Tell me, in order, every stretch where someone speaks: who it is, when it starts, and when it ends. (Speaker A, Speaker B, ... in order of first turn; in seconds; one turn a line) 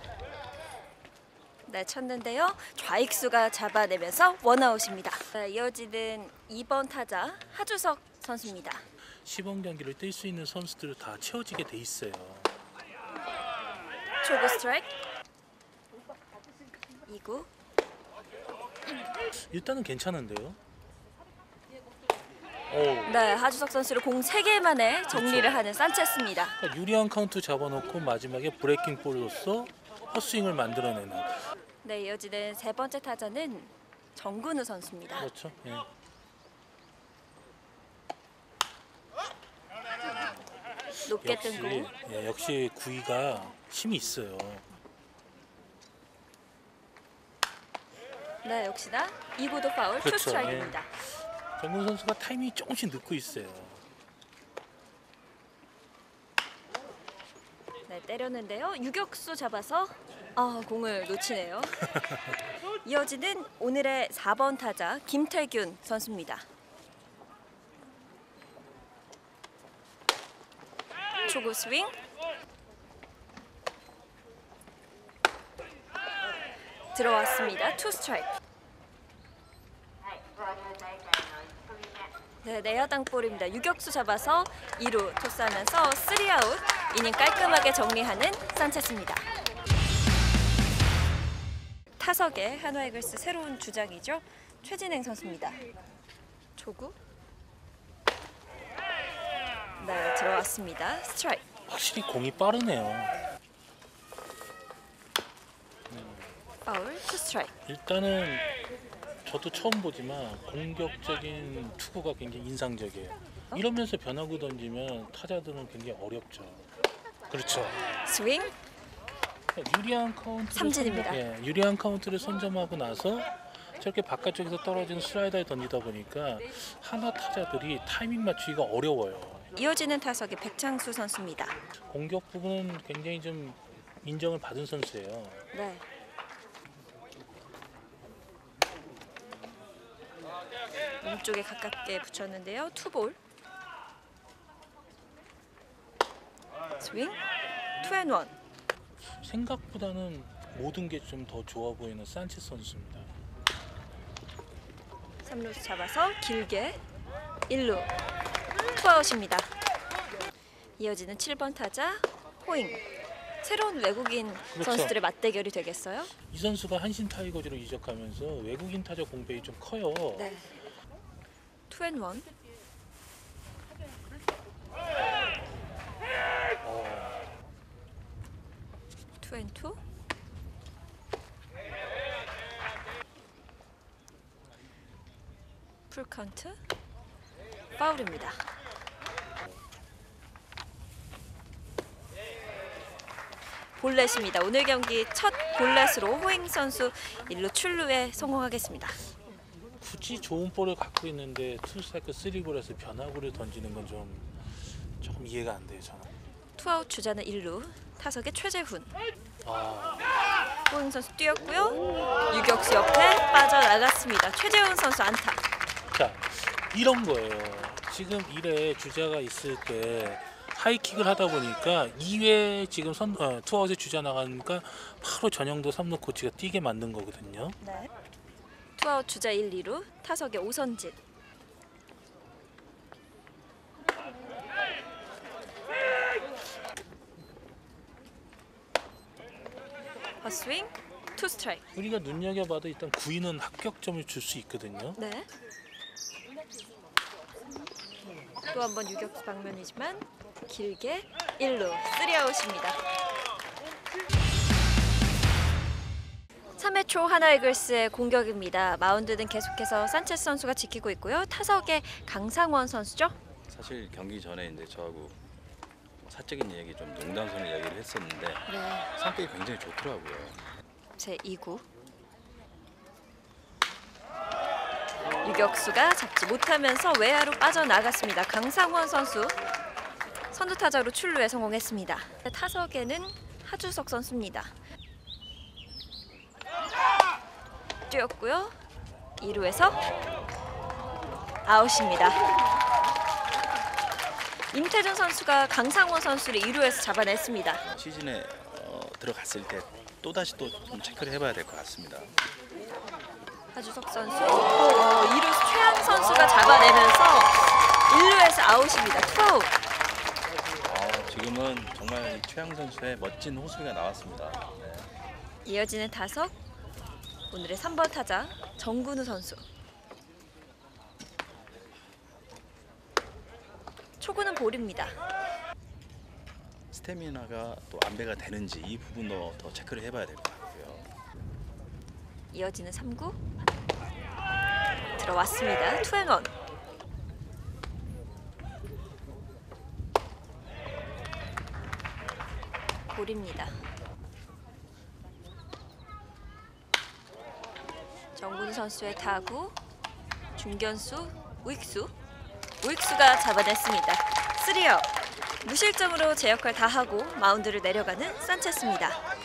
Speaker A: 1.7-8.8
Speaker B: 9.2-12.6
Speaker A: 14.2-14.9
Speaker A: 17.1-17.5
Speaker B: 19.3-20.6
Speaker B: 22.7-23.2
Speaker A: 23.1-26.6
Speaker B: 25.1-25.7
Speaker B: 26.5-31.4
Speaker A: 31.8-35.3
Speaker B: 35.2-35.9
Speaker B: 40.1-40.6
Speaker A: 41.0-41.9
Speaker B: 41.2-44.7
Speaker A: 48.4-50.9
Speaker B: 50.0-53.8
Speaker A: 57.9-61.9
Speaker A: 62.8-66.5
Speaker A: 71.2-72.0
Speaker A: 76.9-78.3
Speaker A: 82.4-89.2
Speaker A: 92.0-95.6
Speaker A: 96.6-97.0
Speaker A: 99.8-101.4
Speaker B: 101.7-103.2
Speaker B: 105.9-106.4
Speaker A: 106.7-107.5
Speaker B: 107.7-108.5
Speaker B: 109.2-116.7
Speaker B: 117.3-117.9
Speaker A: 118.0-118.5
Speaker B: 119.5-129.5
Speaker A: 120.5-121.2
Speaker A: 129.5-131.5
Speaker B: 131.8-135.4
Speaker A: 135.5-135.8
Speaker A: 141.0-143.2
Speaker A: 146.8-147.2
Speaker A: 147.8-148.3
Speaker B: 149.0-153.1
Speaker A: 155.2-156.8
Speaker A: 157.5-157.9
Speaker A: 158.7-159.5
Speaker A: 160.8-162.8
Speaker A: 163.4-166.1
Speaker B: 164.5-164.9
Speaker B: 166.2-170.3
Speaker A: 170.1-170.5
Speaker A: 171.7-172.2
Speaker B: 176.6-177.3
Speaker A: 179.2-179.8
Speaker A: 185.9-186.6
Speaker A: 187.8-188.4
Speaker A: 193.7-199.0
Speaker B: 199.8-206.1
Speaker A: 206.6-208.9
Speaker B: 209.4-210.1
Speaker A: 210.7-215.4
Speaker B: 215.9-227.6
Speaker A: 227.6-227.9
Speaker A: 228.8-230.9
Speaker A: 240.2-241.6
Speaker B: 241.7-245.0
Speaker A: 245.0-245.3
Speaker A: 248.5-252.8
Speaker A: 256.6-263.2
Speaker C: 263.5-265.2
Speaker C: 266.0-270.4
Speaker A: 268.5-268.9
Speaker A: 271.0-271.6
Speaker A: 275.2-279.4
Speaker A: 280.3-284.6
Speaker A: 287.9-288.6
Speaker A: 289.2-289.8
Speaker A: 291.4-292.2
Speaker A: 294.5-297.6
Speaker C: 297.6-302.1
Speaker A: 303.5-309.5
Speaker C: 310.6-314.9
Speaker A: 315.5-316.4
Speaker A: 317.3-319.4
Speaker A: 324.0-325.0
Speaker C: 326.7-330.9
Speaker A: 332.3-333.2
Speaker A: 335.0-336.3
Speaker A: 342.9-343.6
Speaker A: 348.1-349.6
Speaker A: 350.4-351.9
Speaker A: 352.6-359.0